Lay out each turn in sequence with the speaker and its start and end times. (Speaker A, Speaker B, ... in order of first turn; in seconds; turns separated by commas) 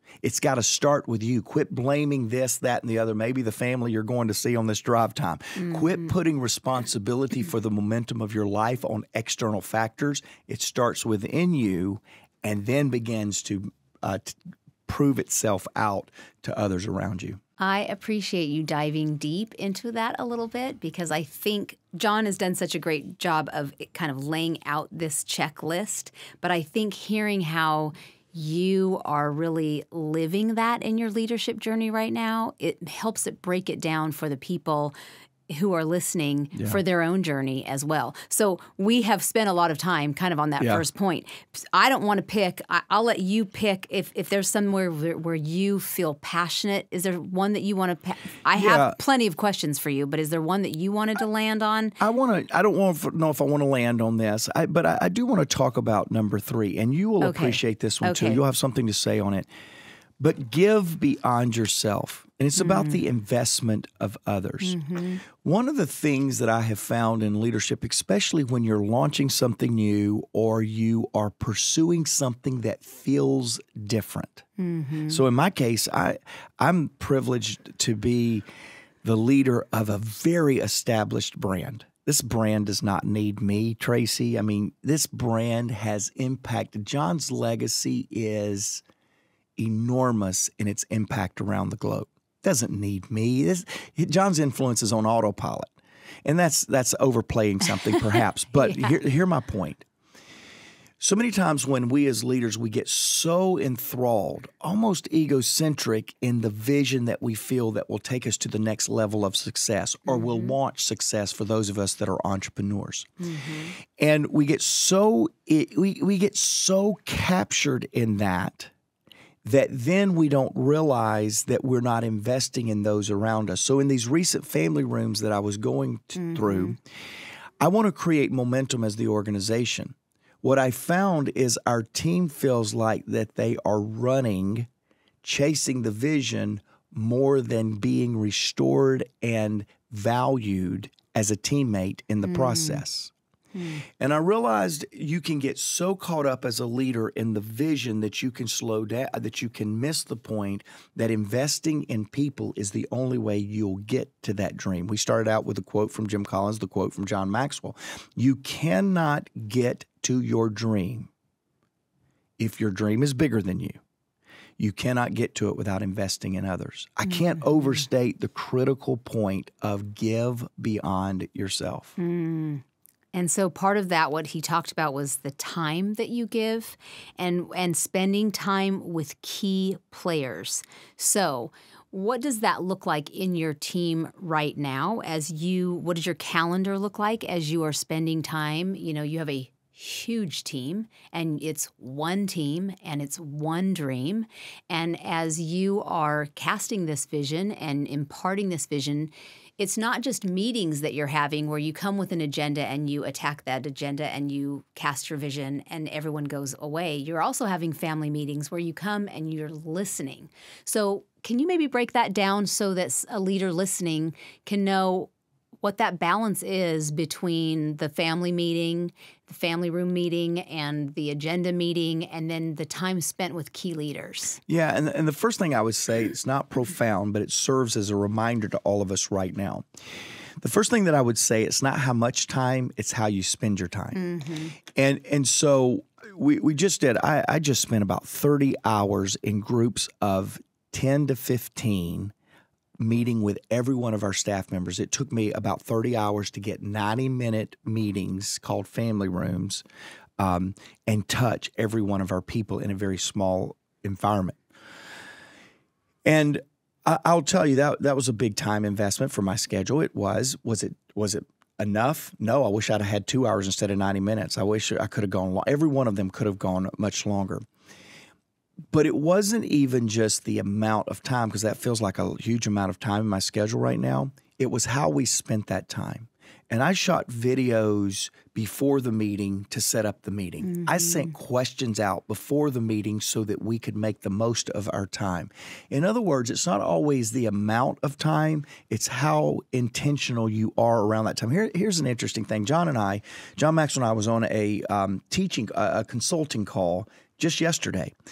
Speaker A: 0.2-17.4, Speaker B: 5.6-6.1, Speaker B: 17.6-34.9, Speaker B: 35.5-52.0, Speaker A: 48.5-49.0, Speaker A: 52.0-59.5, Speaker B: 57.2-58.4, Speaker A: 60.2-74.4, Speaker B: 62.6-63.0, Speaker B: 64.6-65.2, Speaker B: 74.6-75.2, Speaker A: 75.1-78.4, Speaker A: 79.0-88.8, Speaker A: 89.6-95.7, Speaker A: 96.2-99.8, Speaker B: 98.5-99.0, Speaker A: 101.0-113.1, Speaker B: 110.1-110.5, Speaker B: 113.2-113.7, Speaker A: 114.0-118.7, Speaker A: 119.4-126.8, Speaker B: 126.2-126.8, Speaker A: 127.6-134.7, Speaker A: 135.2-143.1, Speaker B: 142.3-142.8, Speaker B: 143.5-143.8, Speaker A: 144.0-161.1, Speaker A: 162.4-163.8, Speaker A: 164.6-171.9, Speaker B: 167.1-167.6, Speaker B: 172.0-215.1, Speaker B: 215.6-224.4, Speaker A: 224.5-229.6, Speaker A: 230.4-234.0, Speaker B: 233.9-234.5, Speaker A: 234.7-242.1, Speaker A: 242.8-249.6, Speaker A: 250.2-254.4, Speaker A: 256.0-267.4, Speaker A: 268.7-297.9, Speaker B: 280.4-281.1